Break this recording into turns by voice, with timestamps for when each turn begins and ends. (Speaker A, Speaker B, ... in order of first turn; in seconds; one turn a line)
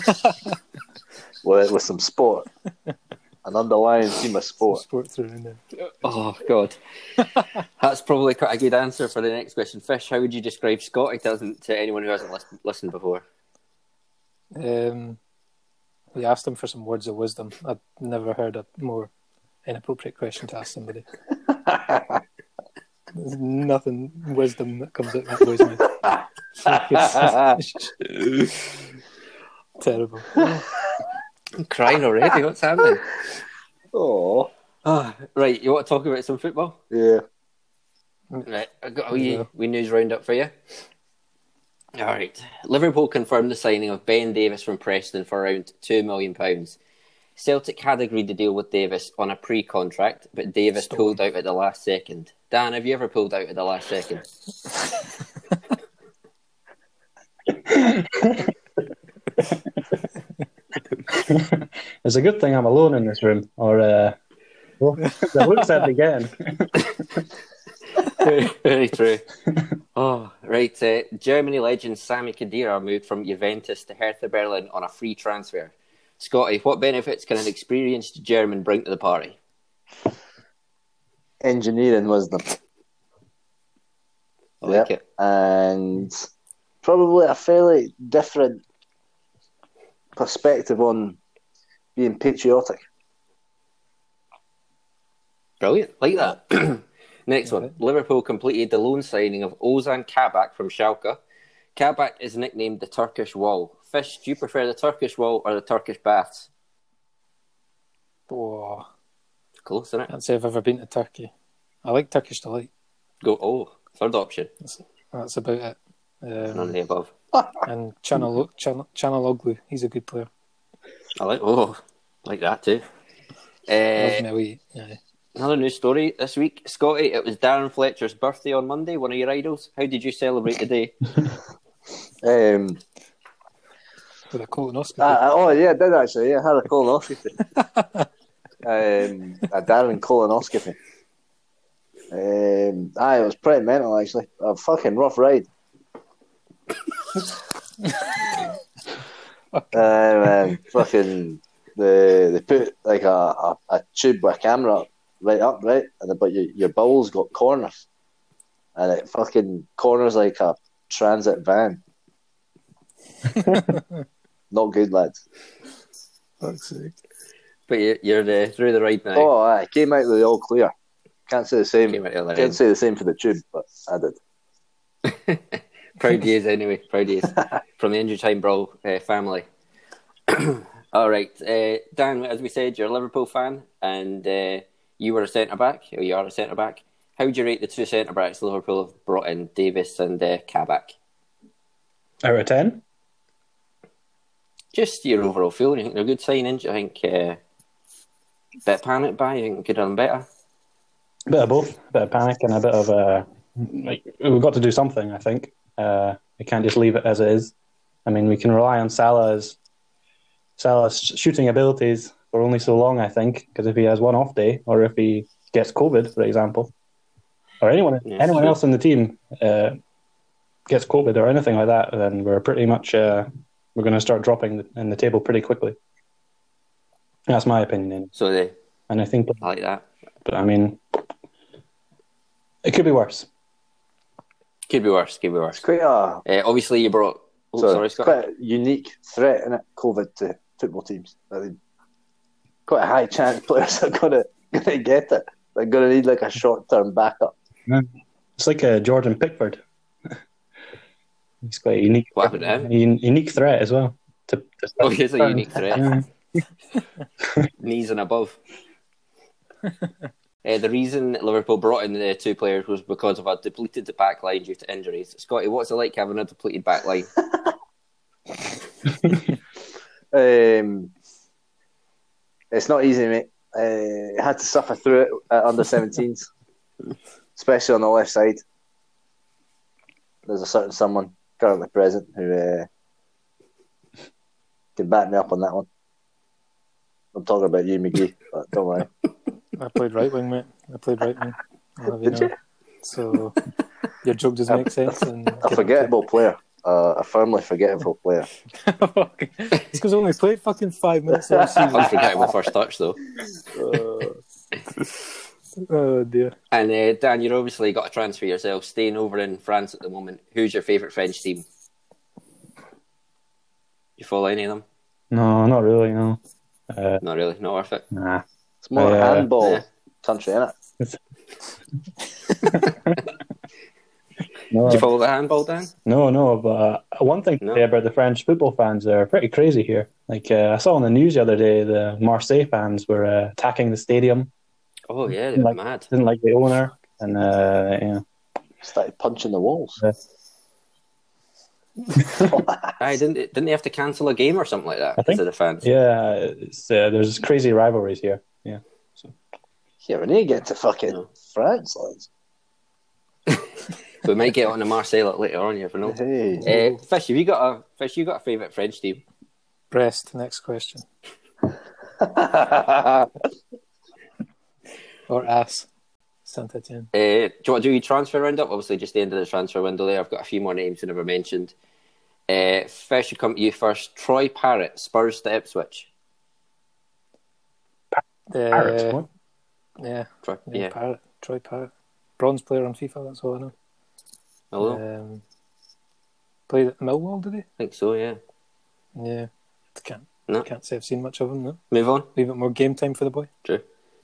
Speaker A: 1.4-2.5
Speaker A: 3.5-4.8
Speaker B: 4.7-5.6
Speaker C: 6.0-6.8
Speaker C: 7.8-13.2
Speaker B: 14.6-15.2
Speaker B: 16.1-19.1
Speaker B: 19.7-21.1
Speaker A: 21.6-22.2
Speaker B: 23.1-26.0
Speaker A: 26.0-27.6
Speaker B: 26.6-27.9
Speaker B: 29.8-30.7
Speaker A: 30.4-30.8
Speaker C: 31.6-33.1
Speaker A: 33.9-34.5
Speaker C: 34.9-36.8
Speaker A: 36.9-37.2
Speaker C: 38.5-40.5
Speaker B: 39.1-39.5
Speaker C: 42.0-46.8
Speaker C: 47.4-54.2
Speaker B: 50.9-51.2
Speaker D: 57.5-58.5
Speaker D: 61.1-64.2
Speaker D: 64.8-67.2
Speaker B: 65.2-65.7
Speaker C: 68.1-69.3
Speaker C: 70.0-79.4
Speaker A: 81.4-82.5
Speaker C: 84.6-85.0
Speaker A: 84.6-86.2
Speaker A: 86.8-88.6
Speaker A: 90.2-91.2
Speaker A: 92.0-92.8
Speaker C: 95.6-101.2
Speaker B: 97.5-97.7
Speaker C: 101.8-106.5
Speaker B: 108.3-108.9
Speaker C: 109.7-110.1
Speaker B: 110.1-111.3
Speaker B: 111.8-112.7
Speaker C: 113.2-114.5
Speaker B: 114.7-116.8
Speaker C: 116.5-117.1
Speaker B: 117.7-120.3
Speaker C: 121.2-122.8
Speaker C: 123.7-124.2
Speaker B: 124.0-125.0
Speaker C: 125.4-131.0
Speaker A: 132.2-132.8
Speaker B: 134.3-135.2
Speaker A: 135.0-137.4
Speaker B: 137.6-138.1
Speaker A: 138.6-140.8
Speaker A: 142.1-145.5
Speaker A: 149.7-157.8
Speaker A: 158.8-161.8
Speaker A: 164.5-165.2
Speaker B: 166.4-167.0
Speaker C: 167.7-169.3
Speaker A: 169.2-170.7
Speaker A: 171.3-174.2
Speaker C: 171.9-172.6
Speaker C: 175.1-179.5
Speaker C: 180.3-190.9
Speaker D: 192.2-192.8
Speaker C: 194.7-197.4
Speaker C: 198.7-200.3
Speaker D: 201.3-207.5
Speaker D: 208.1-209.6
Speaker D: 210.6-216.7
Speaker D: 217.6-219.8
Speaker C: 218.0-218.6
Speaker D: 220.7-225.8
Speaker D: 227.3-228.1
Speaker C: 228.2-228.5
Speaker D: 228.9-229.4
Speaker C: 229.4-229.8
Speaker D: 230.2-231.0
Speaker D: 232.7-233.3
Speaker C: 234.7-235.6
Speaker A: 235.5-236.2
Speaker C: 236.3-238.2
Speaker A: 237.6-241.6
Speaker A: 242.7-247.3
Speaker D: 247.7-249.6
Speaker D: 251.4-256.1
Speaker C: 252.2-252.7
Speaker C: 254.8-255.9
Speaker C: 257.6-258.4
Speaker C: 260.4-267.1
Speaker A: 270.1-270.9
Speaker A: 272.5-276.3
Speaker A: 277.4-278.4
Speaker A: 280.3-282.7
Speaker A: 284.8-285.7
Speaker A: 287.1-288.9
Speaker B: 289.6-293.4
Speaker A: 292.0-292.3
Speaker B: 294.0-295.9
Speaker A: 294.5-298.3
Speaker B: 298.6-302.1
Speaker A: 301.3-302.1
Speaker C: 301.7-303.0
Speaker A: 303.5-304.2
Speaker B: 305.6-306.4
Speaker C: 306.5-311.4
Speaker C: 314.0-314.6
Speaker D: 315.1-317.0
Speaker C: 317.0-317.9
Speaker D: 317.9-318.2
Speaker A: 318.6-320.5
Speaker D: 318.8-319.3
Speaker D: 322.5-323.0
Speaker D: 324.5-324.9
Speaker C: 324.6-325.7
Speaker D: 325.9-334.3
Speaker C: 334.9-335.9
Speaker D: 335.4-338.0
Speaker A: 338.6-339.8
Speaker A: 342.1-342.8
Speaker C: 342.8-345.7
Speaker D: 345.0-349.1
Speaker A: 349.8-352.1
Speaker C: 354.0-359.0
Speaker A: 355.8-356.5
Speaker B: 356.4-356.8
Speaker B: 359.7-360.9
Speaker A: 362.0-363.1
Speaker B: 365.1-365.7
Speaker B: 366.3-366.9
Speaker C: 366.9-371.5
Speaker C: 372.3-375.9
Speaker D: 377.9-379.1
Speaker B: 378.3-379.0
Speaker B: 379.8-383.5
Speaker C: 380.2-380.7
Speaker C: 384.5-384.8
Speaker B: 384.6-385.2
Speaker B: 386.5-387.5
Speaker C: 387.6-388.2
Speaker B: 389.0-391.6
Speaker C: 391.7-392.1
Speaker B: 392.1-393.3